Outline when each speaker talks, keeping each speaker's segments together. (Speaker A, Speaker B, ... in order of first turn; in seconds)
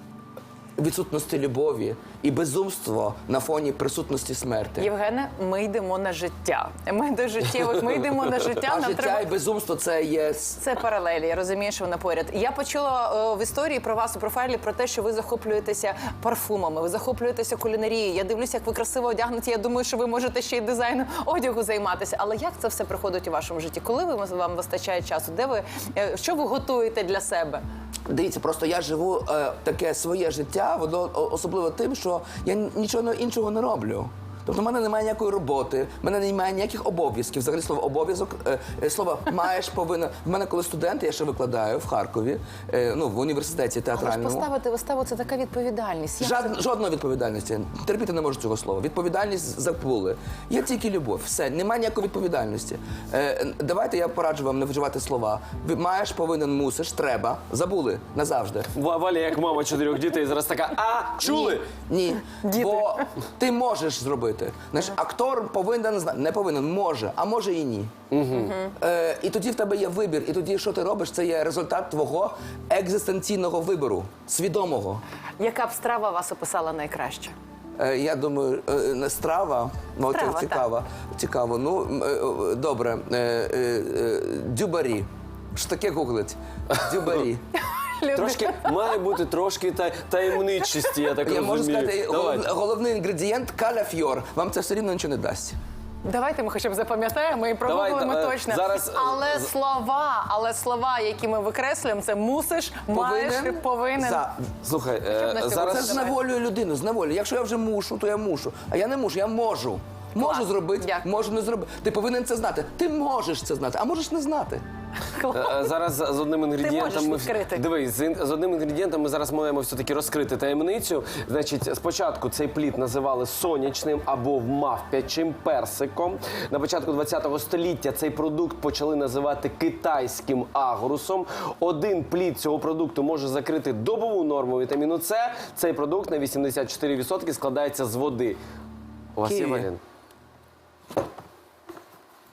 Speaker A: 0.8-4.9, 8.6-10.6, 28.1-44.5, 46.2-58.7, 61.2-67.9, 68.8-75.0, 77.8-87.4, 91.2-95.6, 102.9-104.5, 105.6-114.6, 139.2-139.7
Speaker B: 4.8-9.3, 10.6-27.6, 43.9-46.5, 62.4-63.1, 68.3-68.7, 75.4-77.3, 80.1-80.7, 87.6-88.9, 96.0-104.2, 105.1-106.2, 110.2-111.1, 115.0-115.7, 116.6-117.6
Speaker C: 58.7-61.7, 68.1-68.6, 88.1-92.5, 97.6-99.5, 104.6-106.0, 115.3-138.4, 139.2-139.8